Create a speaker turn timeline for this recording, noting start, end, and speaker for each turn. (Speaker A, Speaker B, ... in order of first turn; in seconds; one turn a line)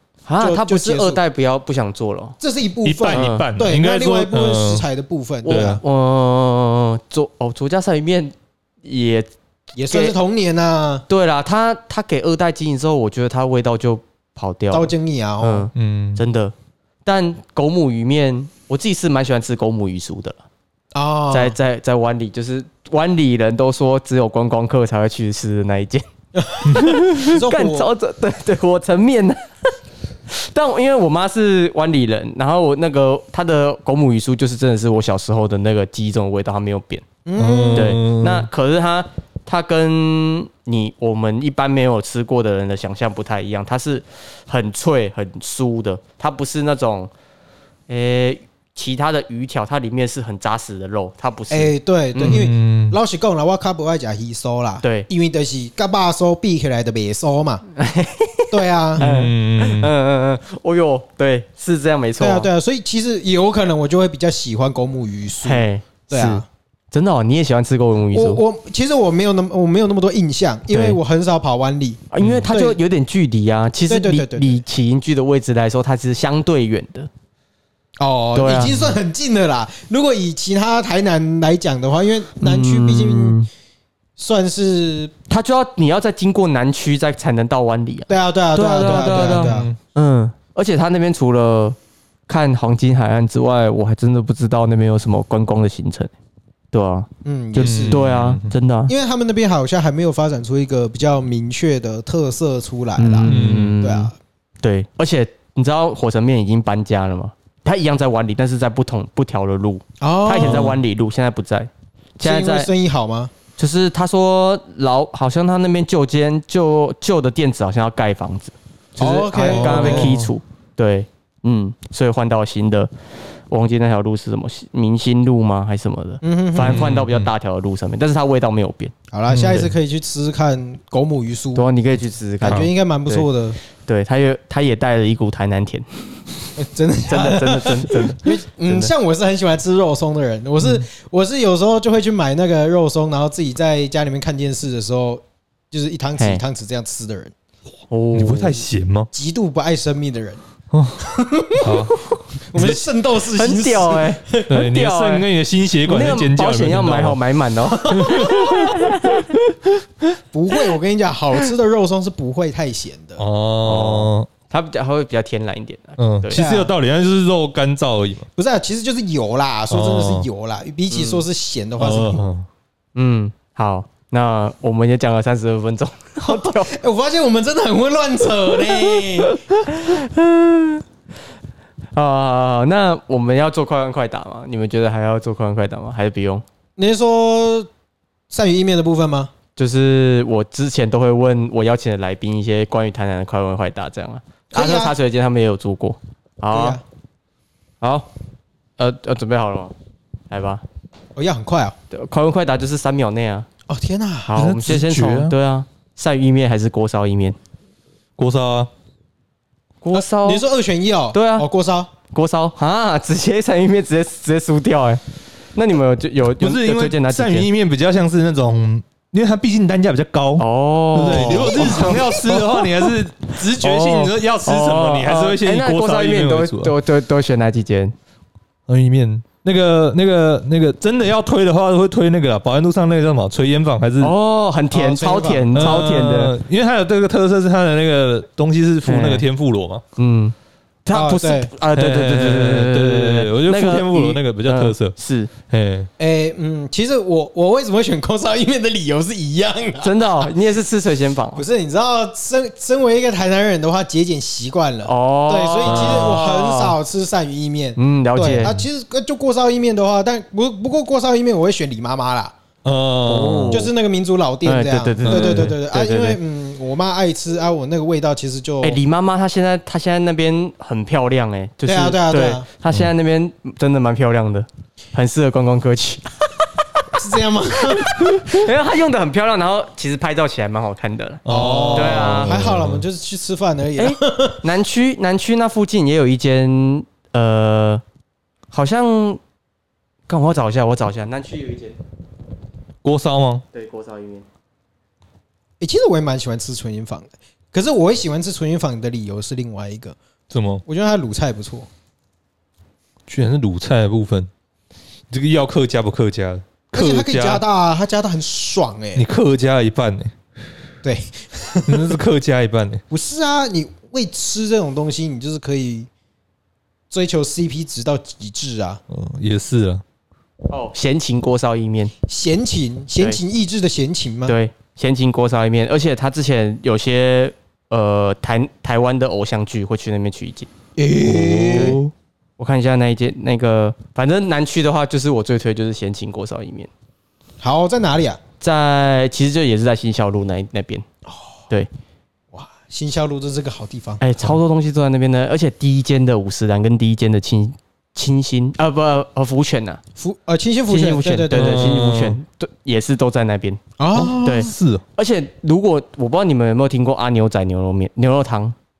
Speaker A: 0.3-2.4
Speaker B: 0.4-1.2
Speaker B: 2.4-5.8
Speaker C: 2.8-4.8
Speaker A: 3.1-3.5
Speaker A: 5.4-9.3
Speaker C: 5.5-5.8
Speaker B: 9.8-11.1
Speaker A: 9.9-10.2
Speaker A: 11.1-16.5
Speaker B: 14.7-15.7
Speaker C: 15.8-16.2
Speaker A: 17.1-20.4
Speaker B: 20.9-21.6
Speaker A: 21.3-26.1
Speaker B: 26.4-27.9
Speaker A: 26.6-29.4
Speaker A: 30.3-37.0
Speaker B: 37.2-38.0
Speaker C: 37.4-38.5
Speaker A: 37.7-47.1
Speaker A: 47.9-52.5
Speaker B: 51.5-57.6
Speaker C: 52.2-53.0
Speaker A: 54.8-55.1
Speaker A: 57.8-62.5
Speaker B: 58.5-59.0
Speaker C: 59.0-59.9
Speaker B: 62.2-66.5
Speaker A: 65.4-68.4
Speaker B: 68.1-72.8
Speaker A: 70.7-71.0
Speaker A: 72.1-77.1
Speaker C: 72.2-72.5
Speaker B: 73.9-74.6
Speaker B: 78.0-83.4
Speaker A: 78.3-79.0
Speaker A: 82.4-83.5
Speaker B: 84.2-85.1
Speaker A: 85.3-91.8
Speaker B: 88.1-89.7
Speaker C: 88.8-89.8
Speaker A: 92.3-96.1
Speaker A: 96.7-98.9
Speaker B: 97.2-98.0
Speaker C: 97.6-98.5
Speaker B: 98.9-104.2
Speaker A: 103.0-104.1
Speaker C: 103.3-103.8
Speaker A: 104.6-112.7
Speaker B: 110.0-110.8
Speaker C: 110.4-110.7
Speaker B: 112.2-113.3
Speaker A: 113.6-122.9
Speaker B: 119.0-120.2
Speaker C: 119.5-120.3
Speaker A: 123.5-128.9
Speaker B: 126.2-126.9
Speaker C: 126.6-127.3
Speaker B: 129.1-131.7
Speaker C: 129.3-129.7
Speaker A: 131.6-133.3
Speaker B: 132.4-133.6
Speaker A: 133.8-135.9
Speaker B: 136.6-147.3
Speaker A: 137.1-138.9
Speaker A: 146.2-146.4
Speaker A: 147.9-148.6
Speaker C: 148.1-149.1
Speaker B: 149.1-150.4
Speaker C: 150.7-151.0
Speaker B: 151.0-151.8
Speaker C: 151.6-152.8
Speaker B: 152.5-154.6
Speaker A: 153.3-155.3
Speaker C: 154.5-157.2
Speaker A: 155.8-159.3
Speaker B: 157.7-158.5
Speaker C: 157.9-158.8
Speaker B: 160.3-163.2
Speaker C: 163.2-164.3
Speaker A: 163.6-166.4
Speaker C: 166.0-168.3
Speaker B: 166.3-166.7
Speaker B: 168.4-172.2
Speaker C: 169.7-170.3
Speaker A: 170.9-171.2
Speaker C: 171.8-172.5
Speaker A: 172.9-176.7
Speaker B: 176.2-179.4
Speaker A: 178.7-180.8
Speaker A: 181.9-186.4
Speaker B: 186.8-187.7
Speaker B: 188.3-189.3
Speaker A: 189.6-196.8
Speaker B: 194.5-195.0
Speaker B: 196.5-196.8
Speaker A: 197.8-198.1
Speaker A: 198.8-199.7
Speaker A: 200.3-200.6
Speaker B: 201.2-201.8
Speaker A: 201.9-203.5
Speaker B: 203.7-204.3
Speaker A: 204.2-207.4
Speaker C: 204.4-205.3
Speaker C: 208.2-208.7
Speaker A: 209.8-210.4
Speaker B: 209.9-211.9
Speaker A: 211.1-211.5
Speaker A: 212.1-215.0
Speaker A: 215.6-217.5
Speaker C: 216.4-226.7
Speaker A: 220.4-222.6
Speaker B: 221.1-222.4
Speaker A: 223.5-227.9
Speaker C: 228.7-234.1
Speaker A: 234.0-236.3
Speaker B: 234.7-235.8
Speaker C: 235.6-239.8
Speaker A: 238.9-239.2
Speaker A: 240.0-240.3
Speaker A: 240.8-245.3
Speaker B: 240.9-241.5
Speaker C: 241.8-244.9
Speaker C: 245.5-245.9
Speaker B: 246.0-250.3
Speaker A: 249.8-251.4
Speaker B: 251.3-262.4
Speaker A: 254.8-256.8
Speaker C: 255.7-256.2
Speaker A: 257.8-258.6
Speaker C: 262.6-263.6
Speaker A: 263.1-263.7
Speaker B: 263.5-268.8
Speaker A: 264.4-266.2
Speaker C: 265.1-265.6
Speaker A: 268.6-276.1
Speaker B: 271.7-272.5
Speaker B: 277.0-278.2
Speaker A: 277.8-282.4
Speaker C: 281.3-282.8
Speaker B: 281.3-284.4
Speaker A: 283.8-287.8
Speaker A: 288.5-289.2
Speaker A: 290.1-291.8
Speaker C: 292.8-293.4
Speaker A: 293.5-294.2
Speaker B: 295.6-300.0
Speaker C: 300.3-300.6
Speaker B: 300.7-301.7
Speaker C: 303.1-304.3
Speaker C: 305.1-307.4
Speaker B: 306.7-309.1
Speaker C: 309.0-310.1
Speaker B: 310.8-312.0
Speaker C: 311.7-312.8
Speaker B: 312.9-315.9
Speaker B: 316.9-318.8
Speaker C: 318.9-319.8
Speaker A: 320.5-321.9
Speaker B: 322.1-324.4
Speaker A: 324.3-330.5
Speaker B: 330.8-331.8
Speaker C: 331.0-331.9
Speaker A: 331.5-331.8
Speaker A: 332.4-336.7
Speaker B: 337.4-338.2
Speaker A: 338.4-340.9
Speaker B: 342.3-344.0
Speaker A: 344.0-349.8
Speaker B: 350.0-351.9
Speaker A: 350.7-353.6
Speaker C: 351.3-352.2
Speaker B: 353.8-354.5
Speaker C: 353.9-354.8
Speaker A: 354.2-358.6